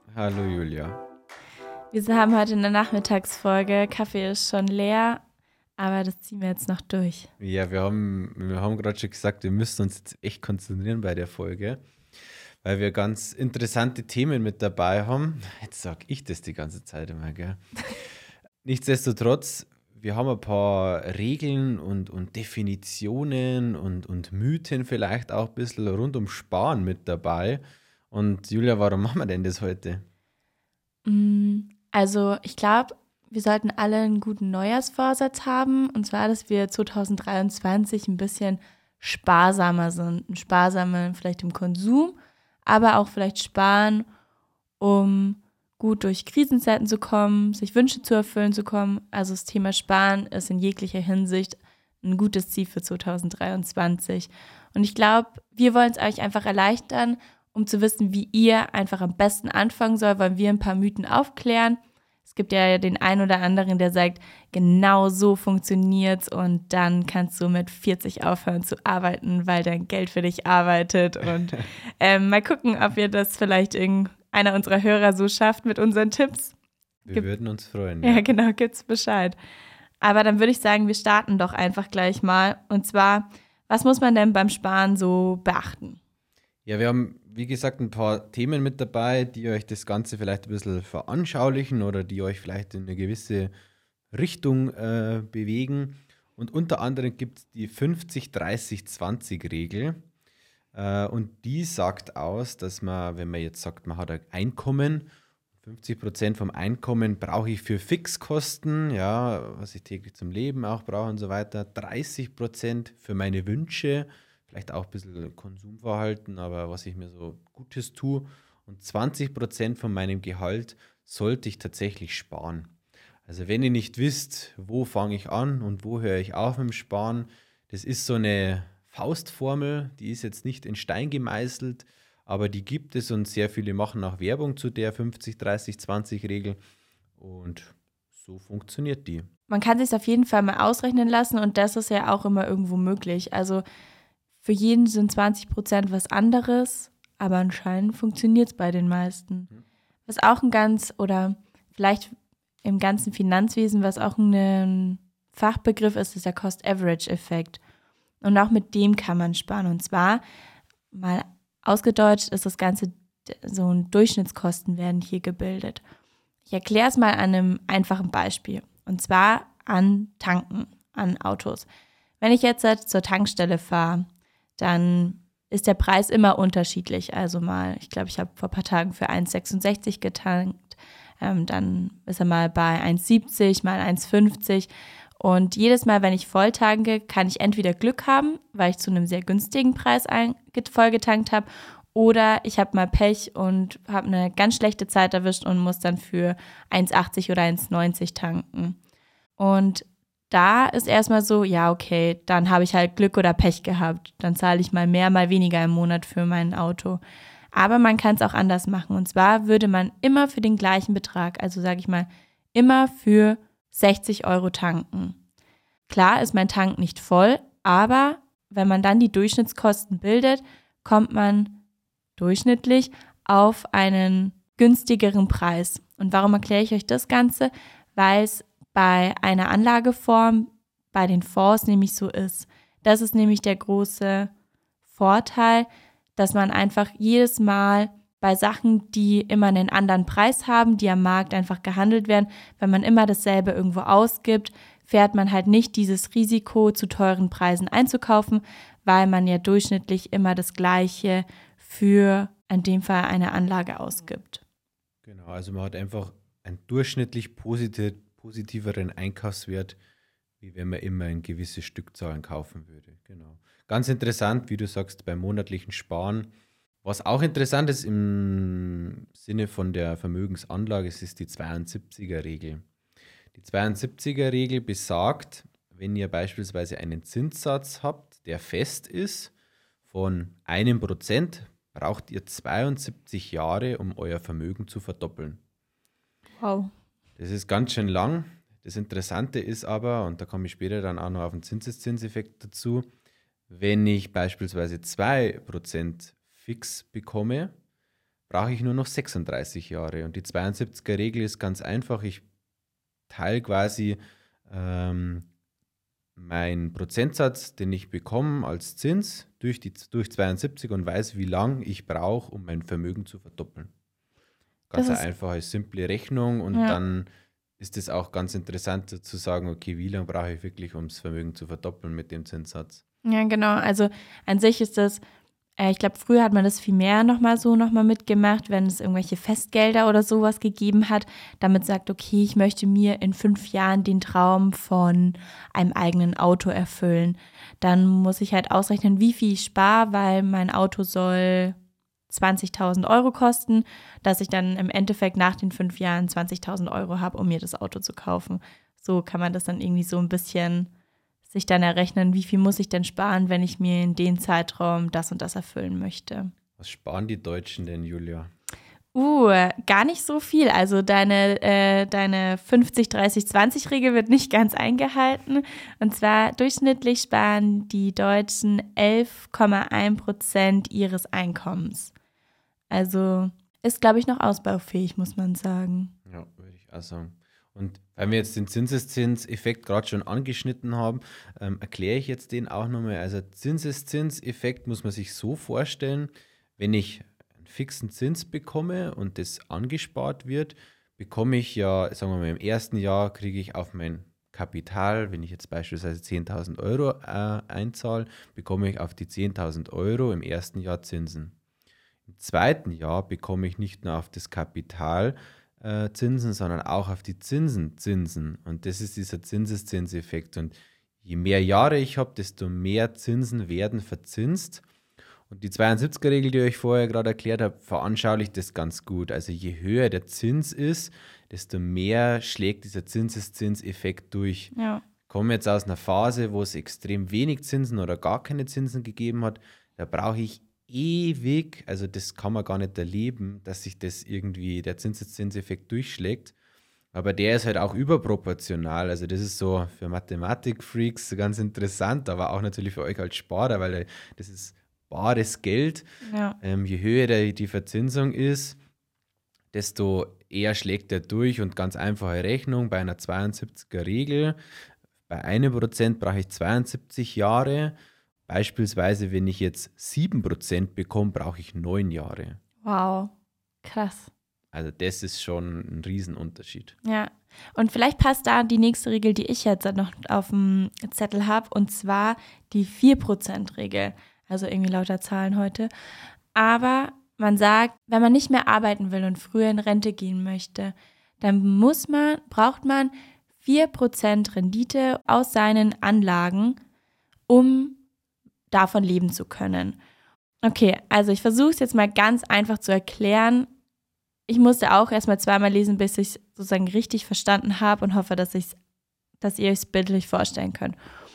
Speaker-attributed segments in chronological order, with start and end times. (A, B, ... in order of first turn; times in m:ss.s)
0:00.1-0:01.0 A
0:01.9-0:05.2 B
0:05.8-0:07.3 B
0:07.4-0:11.8 A
0:12.6-0:18.0 A
0:18.6-0:30.0 A
0:31.0-0:42.2 B
0:42.7-0:44.0 B
0:44.8-1:16.5 B
1:17.0-1:18.2 A
1:18.0-1:19.4 B
1:20.0-1:26.0 B
1:26.6-1:33.5 A
1:34.1-1:40.0 A
1:40.7-1:45.1 A
1:45.6-2:02.7 A
2:03.3-2:16.6 A
2:17.2-2:19.2 A
2:19.5-2:23.6 B
2:24.4-2:29.5 B
2:30.1-2:32.1 B
2:32.6-2:37.6 B
2:38.2-2:40.2 B
2:40.9-2:45.8 B
2:46.5-2:51.6 B
2:52.2-2:54.0 B
2:54.6-3:18.8 B
3:19.4-3:27.0 B
3:27.5-3:35.2 B
3:35.9-3:41.6 B
3:42.2-3:54.3 B
3:54.9-4:14.4 B
4:15.0-4:19.8 A
4:20.4-4:26.3 A
4:26.8-4:32.6 A
4:33.3-4:39.3 A
4:39.9-4:45.4 A
4:46.4-4:46.7 B
4:47.2-4:52.9 A
4:53.5-4:57.5 A
4:58.3-5:02.2 A
5:03.1-5:05.3 A
5:06.2-5:13.7 A
5:14.7-5:17.1 A
5:14.7-5:15.0 B
5:16.5-5:16.8 B
5:17.6-5:22.8 A
5:23.0-5:25.0 B
5:25.6-5:41.6 B
5:42.1-5:50.7 B
5:51.3-5:56.3 B
5:56.6-5:58.3 A
5:58.9-6:11.9 B
6:12.7-6:15.9 B
6:16.1-6:41.3 A
6:42.1-6:54.6 A
6:55.3-7:04.5 A
7:04.5-7:04.8 B
7:05.1-7:16.3 A
7:16.9-7:25.8 A
7:26.0-7:26.4 B
7:26.4-7:28.6 A
7:29.5-7:34.4 A
7:35.1-7:37.7 A
7:38.3-7:42.4 A
7:42.6-7:43.1 B
7:43.6-7:44.1 B
7:44.5-7:46.7 A
7:46.8-7:55.7 B
7:56.3-8:06.6 B
8:07.3-8:07.8 B
8:08.5-8:09.8 B
8:10.4-8:13.5 B
8:14.3-8:18.6 B
8:19.2-8:20.8 B